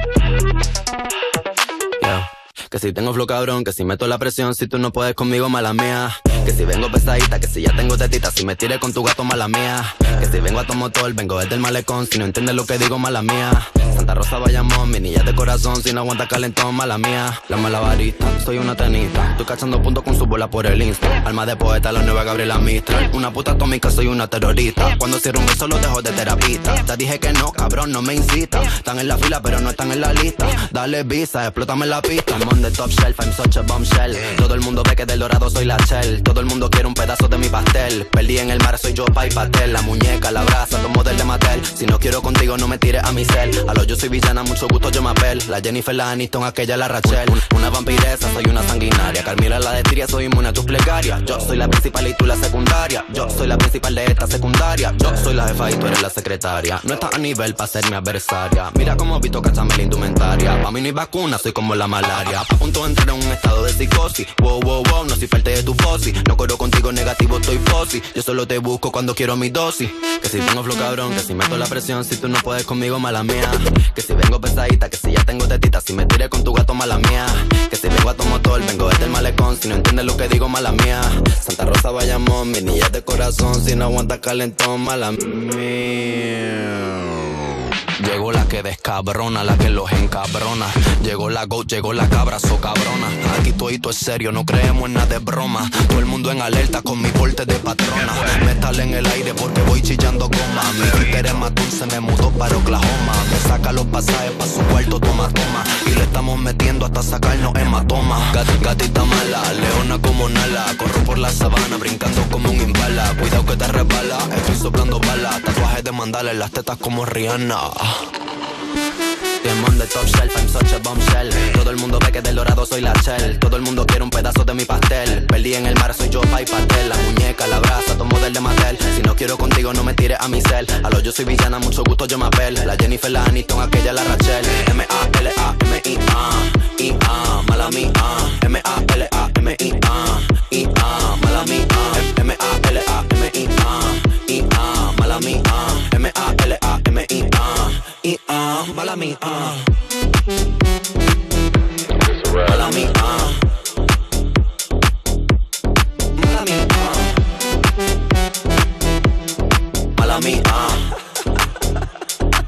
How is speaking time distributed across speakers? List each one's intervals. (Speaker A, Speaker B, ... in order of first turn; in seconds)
Speaker A: 2.0-86.2, 88.0-118.0, 119.4-149.6, 152.4-153.4, 156.2-157.1, 160.0-160.9